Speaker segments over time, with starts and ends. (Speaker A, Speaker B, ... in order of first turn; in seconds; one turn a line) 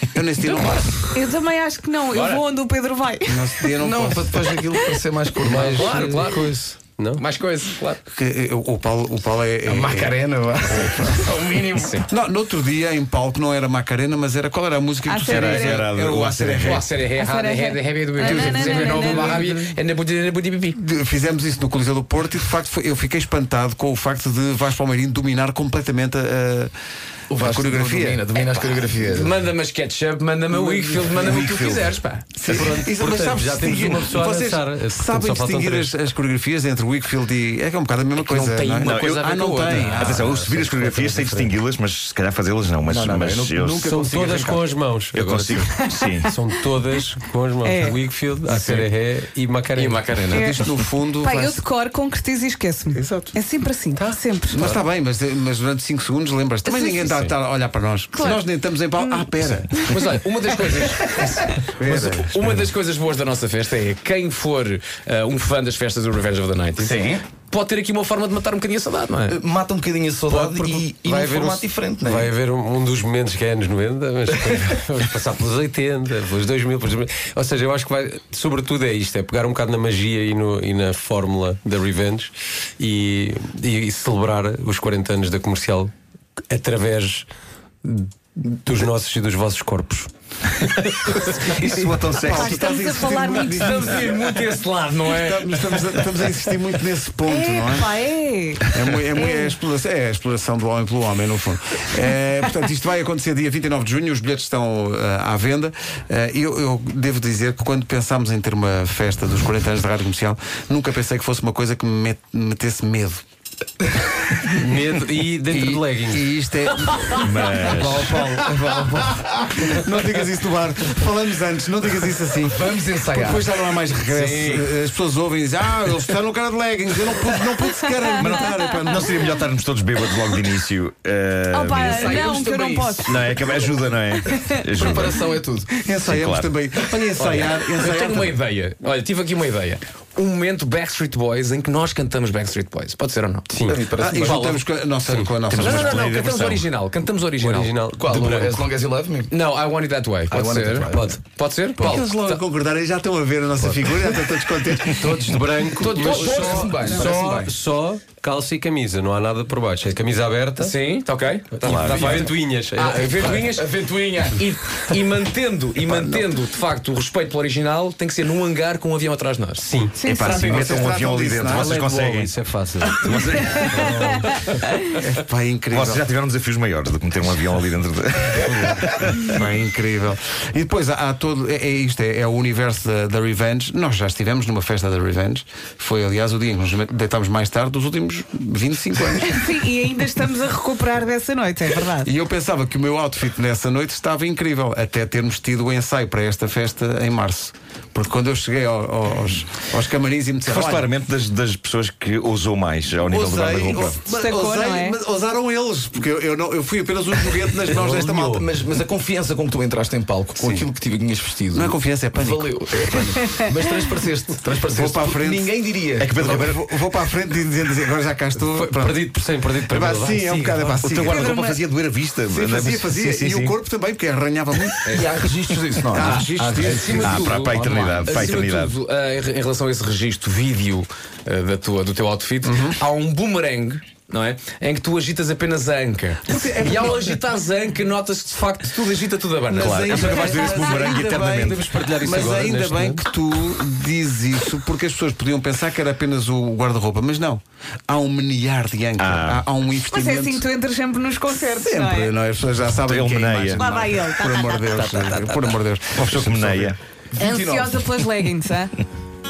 Speaker A: 0.1-1.2
Speaker B: 1.1-3.4
Speaker C: 2.1-2.5
Speaker A: 3.2-4.5
Speaker D: 3.7-6.1
Speaker B: 4.7-5.0
Speaker E: 5.4-7.2
Speaker C: 5.7-6.5
Speaker C: 7.2-8.0
Speaker A: 8.1-11.3
Speaker D: 9.6-11.5
Speaker C: 11.2-12.1
Speaker A: 12.1-16.9
Speaker B: 15.0-15.9
Speaker F: 15.2-16.9
Speaker C: 16.6-20.8
Speaker B: 17.1-19.4
Speaker D: 18.2-19.4
Speaker A: 18.2-19.6
Speaker A: 20.8-26.7
Speaker D: 27.3-29.3
Speaker A: 27.4-28.2
Speaker C: 29.0-32.3
Speaker E: 30.5-31.4
Speaker D: 31.0-31.7
Speaker A: 32.3-40.2
Speaker E: 32.5-35.9
Speaker C: 38.2-41.3
Speaker F: 38.8-39.2
Speaker F: 39.8-43.9
Speaker E: 41.0-41.5
Speaker D: 42.9-44.6
Speaker E: 43.8-45.7
Speaker F: 45.1-46.3
Speaker B: 45.7-46.1
Speaker E: 46.2-50.3
Speaker B: 47.6-48.0
Speaker A: 48.5-48.8
Speaker C: 49.8-50.5
Speaker D: 49.8-50.5
Speaker A: 50.3-51.6
Speaker B: 51.2-54.6
Speaker A: 52.9-53.3
Speaker E: 53.9-54.7
Speaker A: 54.5-59.8
Speaker B: 56.6-57.1
Speaker C: 57.0-57.3
Speaker B: 58.1-58.4
Speaker C: 59.7-69.4
Speaker A: 61.6-62.4
Speaker D: 66.8-67.2
Speaker D: 69.3-72.3
Speaker E: 70.3-85.9
Speaker E: 86.5-87.3
Speaker E: 87.8-91.7
Speaker F: 91.3-92.7
Speaker A: 92.1-94.1
Speaker B: 92.3-93.8
Speaker C: 93.5-96.1
Speaker A: 95.1-98.0
Speaker B: 97.2-99.5
Speaker A: 98.6-113.2
Speaker E: 114.5-116.2
Speaker A: 115.5-129.2
Speaker E: 116.8-117.2
Speaker F: 117.2-118.2
Speaker D: 122.5-123.5
Speaker E: 124.1-124.6
Speaker F: 128.2-132.3
Speaker B: 131.5-133.3
Speaker D: 131.8-133.7
Speaker F: 133.0-135.2
Speaker B: 134.2-134.6
Speaker D: 134.8-135.7
Speaker A: 135.8-138.4
Speaker F: 136.0-136.5
Speaker C: 137.2-143.6
Speaker D: 143.6-144.6
Speaker A: 144.0-146.6
Speaker C: 144.2-144.6
Speaker E: 145.1-146.2
Speaker C: 145.5-147.7
Speaker E: 147.4-148.6
Speaker D: 147.9-149.3
Speaker C: 149.3-152.4
Speaker D: 150.3-151.2
Speaker A: 151.8-155.2
Speaker E: 154.9-160.7
Speaker C: 155.8-156.5
Speaker D: 155.8-157.5
Speaker C: 160.6-169.7
Speaker E: 161.6-163.4
Speaker F: 161.6-162.2
Speaker D: 163.1-164.4
Speaker A: 165.8-166.3
Speaker E: 169.6-170.0
Speaker B: 170.0-170.6
Speaker A: 170.0-171.7
Speaker F: 170.1-172.3
Speaker E: 171.5-174.6
Speaker F: 172.8-174.1
Speaker A: 174.9-176.1
Speaker F: 175.7-179.3
Speaker A: 179.1-189.6
Speaker B: 189.2-192.1
Speaker A: 192.0-200.9
Speaker F: 200.4-204.0
Speaker A: 203.1-208.4
Speaker B: 204.1-205.0
Speaker E: 207.7-208.4
Speaker D: 208.1-216.5
Speaker A: 210.4-210.7
Speaker A: 211.5-212.5
Speaker A: 214.7-215.5
Speaker F: 216.0-216.6
Speaker A: 216.1-219.1
Speaker E: 218.4-220.8
Speaker A: 219.7-221.6
Speaker F: 220.8-223.6
Speaker A: 222.3-225.0
Speaker C: 224.8-225.2
Speaker D: 224.9-228.3
Speaker A: 225.9-227.1
Speaker C: 226.0-240.4
Speaker F: 227.0-228.8
Speaker A: 232.4-232.8
Speaker A: 236.2-237.0
Speaker A: 239.5-250.4
Speaker F: 239.5-241.7
Speaker E: 241.4-243.1
Speaker F: 249.0-249.4
Speaker B: 249.9-252.1
Speaker A: 251.3-256.8
Speaker F: 252.9-253.6
Speaker B: 253.6-255.4
Speaker F: 255.9-256.8
Speaker D: 257.1-258.0
Speaker B: 257.2-258.8